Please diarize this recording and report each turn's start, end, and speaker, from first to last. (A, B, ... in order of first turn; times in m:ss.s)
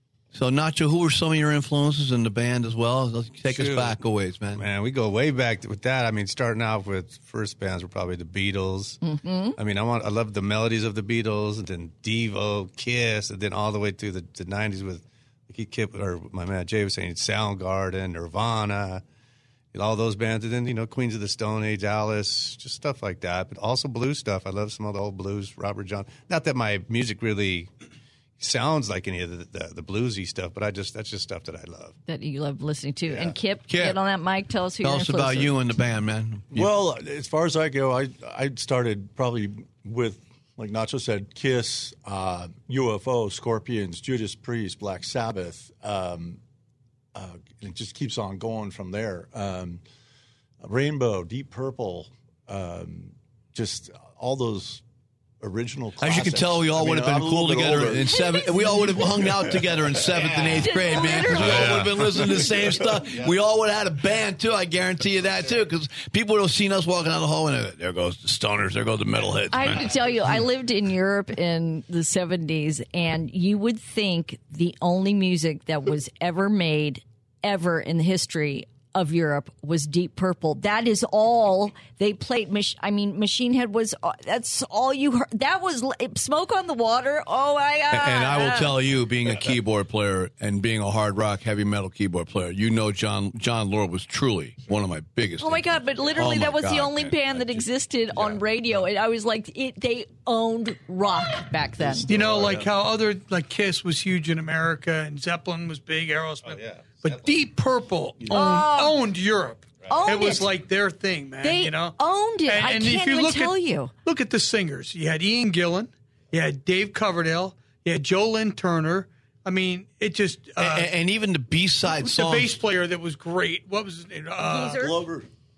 0:00.3-0:04.7 A
0:03.5-0:04.0 B
0:04.6-0:09.0 B
0:09.0-0:09.6 C
0:09.6-0:19.0 B
0:19.7-0:27.7 B
0:28.4-0:32.0 B
0:32.1-0:35.6 C
0:33.7-0:34.0 A
0:34.8-0:36.7 A
0:36.5-0:46.4 D
0:47.1-0:49.8 D
0:50.6-0:54.8 D
0:55.4-1:00.6 D
0:56.0-1:10.1 A
1:00.3-1:02.5 C
1:01.4-1:02.3 B
1:09.5-1:28.8 C
1:27.9-1:37.2 A
1:35.4-1:42.1 C
1:42.1-1:42.7 D
1:42.1-2:00.9 E
1:46.4-1:47.2 B
1:48.3-1:49.0 C
1:49.9-1:50.5 C
1:51.4-1:53.9 C
2:00.6-2:02.6 A
2:02.0-2:05.0 E
2:04.4-2:05.0 C
2:04.8-2:05.3 D